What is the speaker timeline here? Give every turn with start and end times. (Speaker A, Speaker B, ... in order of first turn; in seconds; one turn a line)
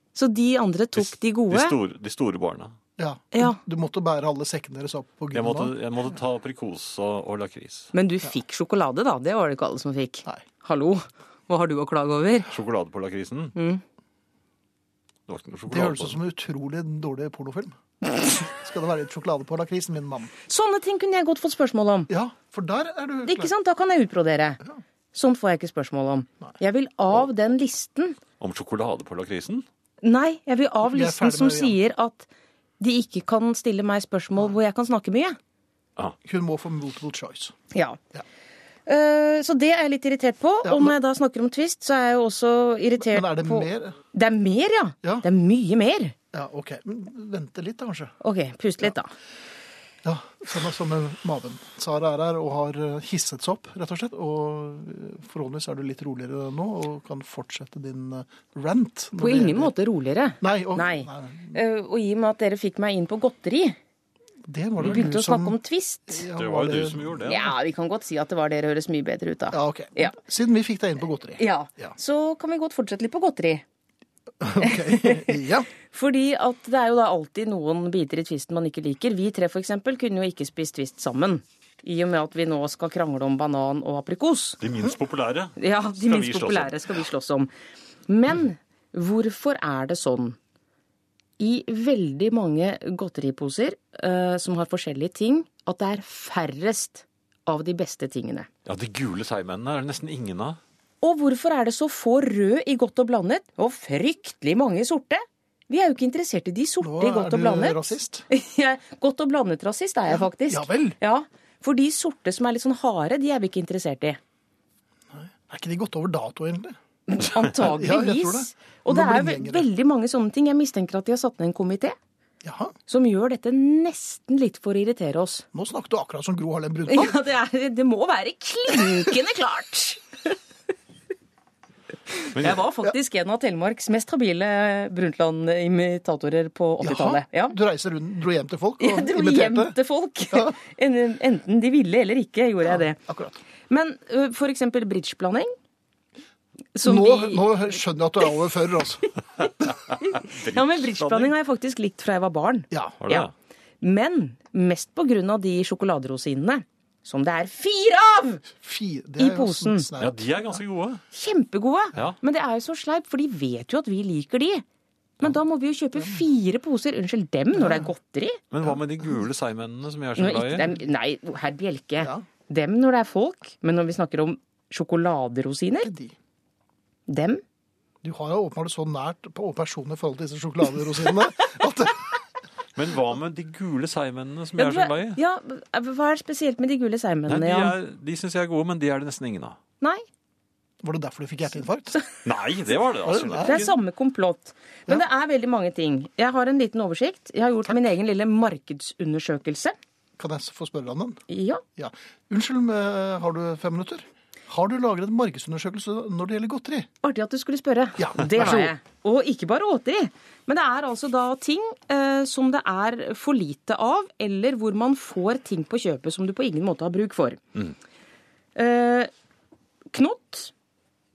Speaker A: 0.1-1.8
Speaker B: 0.9-2.8
Speaker C: 3.0-5.7
Speaker B: 5.3-7.9
Speaker A: 7.9-12.5
Speaker B: 12.5-13.6
Speaker A: 13.6-13.8
Speaker B: 15.3-16.2
Speaker C: 15.7-17.8
Speaker C: 18.4-20.3
Speaker A: 20.5-22.1
Speaker C: 22.1-23.5
Speaker A: 23.2-24.6
Speaker A: 25.1-28.2
Speaker B: 28.4-29.6
Speaker A: 30.0-32.3
Speaker C: 30.8-31.8
Speaker A: 32.8-35.4
Speaker C: 36.2-37.5
Speaker A: 37.7-38.0
Speaker A: 38.9-46.1
Speaker C: 40.6-40.9
Speaker C: 43.0-44.0
Speaker C: 46.3-48.1
Speaker A: 48.2-49.1
Speaker C: 50.0-59.7
Speaker A: 59.2-63.8
Speaker C: 60.4-61.5
Speaker C: 64.5-65.5
Speaker A: 64.8-66.2
Speaker C: 66.1-67.2
Speaker B: 66.3-67.5
Speaker A: 67.2-70.2
Speaker C: 69.5-72.0
Speaker A: 71.4-73.6
Speaker C: 74.4-75.7
Speaker A: 74.6-84.6
Speaker B: 84.6-86.8
Speaker A: 85.6-87.5
Speaker A: 88.1-90.4
Speaker A: 91.4-98.5
Speaker B: 98.6-100.6
Speaker A: 101.0-114.2
Speaker C: 106.8-108.2
Speaker C: 110.1-111.0
Speaker C: 115.1-116.8
Speaker A: 117.1-122.0
Speaker C: 117.4-119.7
Speaker C: 122.4-122.7
Speaker A: 122.9-125.5
Speaker C: 125.5-127.2
Speaker A: 126.9-130.4
Speaker A: 132.1-137.6
Speaker B: 132.3-132.6
Speaker C: 136.8-139.7
Speaker A: 138.8-143.0
Speaker C: 142.7-143.4
Speaker A: 143.7-145.5
Speaker A: 146.7-147.7
Speaker C: 146.8-149.1
Speaker A: 149.4-153.3
Speaker B: 149.9-151.3
Speaker C: 152.7-153.0
Speaker B: 153.0-153.3
Speaker A: 153.8-158.4
Speaker C: 158.6-160.5
Speaker A: 159.2-159.8
Speaker B: 160.0-161.0
Speaker A: 161.1-164.6
Speaker A: 165.2-168.4
Speaker C: 167.5-167.9
Speaker B: 168.5-170.7
Speaker A: 170.2-175.9
Speaker C: 175.8-176.1
Speaker A: 177.1-177.4
Speaker C: 178.0-182.2
Speaker B: 182.7-185.2
Speaker A: 184.6-187.7
Speaker B: 187.3-189.6
Speaker C: 190.8-192.0
Speaker B: 192.2-193.7
Speaker C: 193.0-193.7
Speaker A: 193.4-199.8
Speaker C: 200.2-201.2
Speaker A: 201.3-201.6
Speaker C: 201.8-206.9
Speaker A: 207.0-217.4
Speaker C: 208.0-208.7
Speaker A: 218.5-219.1
Speaker A: 219.9-220.5